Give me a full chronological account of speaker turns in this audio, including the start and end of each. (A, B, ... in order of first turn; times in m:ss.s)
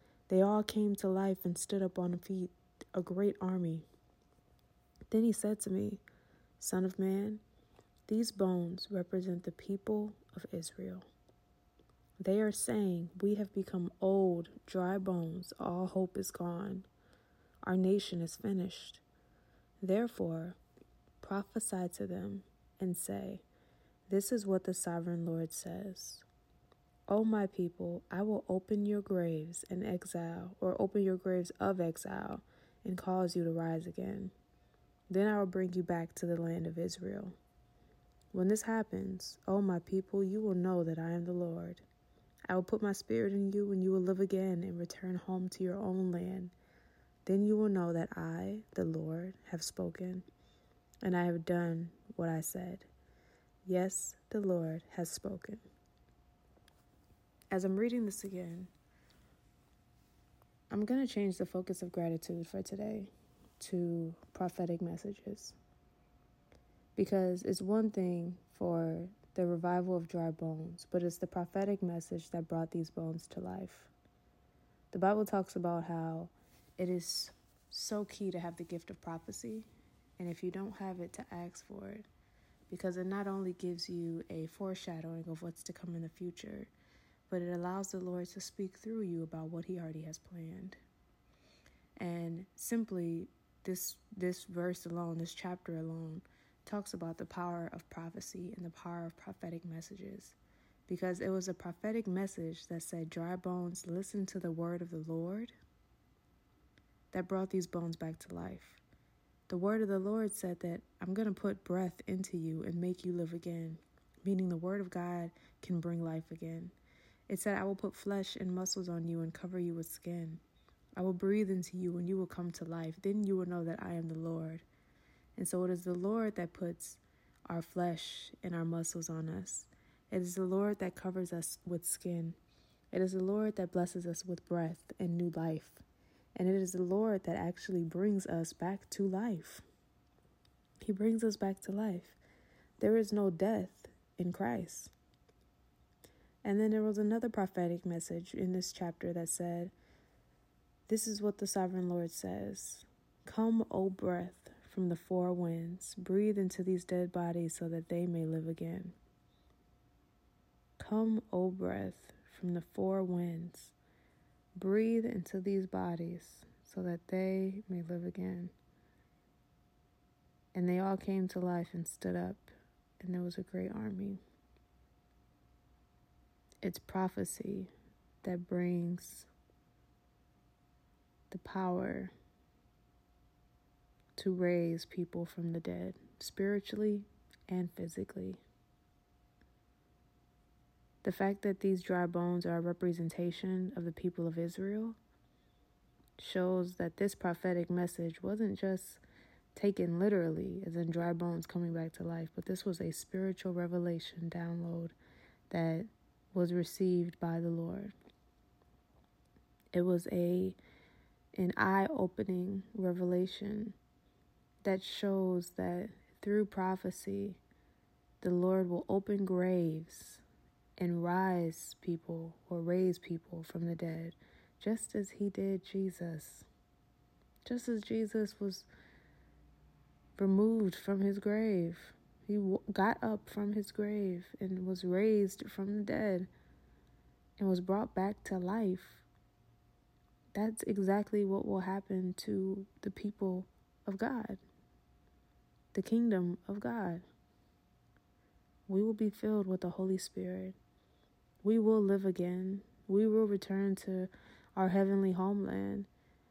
0:00.3-0:03.9 A
0:05.1-0:06.0 A
0:06.6-0:07.4 A
0:08.1-0:11.1 A
0:12.2-0:16.9 A
0:17.6-0:19.0 A
0:19.8-0:20.6 A
0:21.2-0:23.4 A
0:24.1-0:26.2 A
0:27.1-0:34.3 A
0:35.1-0:37.4 A
0:38.3-0:41.8 A
0:42.5-0:46.5 A
0:47.3-0:50.3 A
0:51.0-0:52.9 A
0:53.6-0:55.6 A
0:57.5-0:58.7 A
1:00.7-1:05.6 A
1:07.0-1:13.9 A
1:14.9-1:19.7 A
1:20.2-1:22.1 A
1:22.7-1:26.7 A
1:27.3-1:30.8 A
1:32.0-1:40.4 A
1:40.9-1:45.6 A
1:47.1-1:48.8 A
1:49.5-1:56.8 A
1:57.3-2:00.4 A
2:01.0-2:04.7 A
2:05.4-2:12.4 A
2:12.9-2:15.8 A
2:16.4-2:19.6 A
2:20.8-2:22.2 A
2:22.8-2:24.9 A
2:26.4-2:29.7 A
2:30.9-2:39.0 A
2:40.8-2:43.8 A
2:44.6-2:48.5 A
2:50.5-2:54.2 A
2:56.6-2:57.7 A
2:58.2-2:59.3 A
3:01.3-3:02.1 A
3:04.2-3:08.4 A
3:11.0-3:15.0 A
3:16.2-3:19.0 A
3:19.6-3:25.0 A
3:25.5-3:27.9 A
3:29.7-3:30.6 A
3:31.3-3:33.8 A
3:34.6-3:37.4 A
3:38.2-3:40.2 A
3:40.8-3:46.5 A
3:47.4-3:48.7 A
3:50.2-3:56.3 A
3:57.4-3:59.1 A
4:00.3-4:04.4 A
4:05.7-4:07.0 A
4:08.7-4:10.6 A
4:11.4-4:15.9 A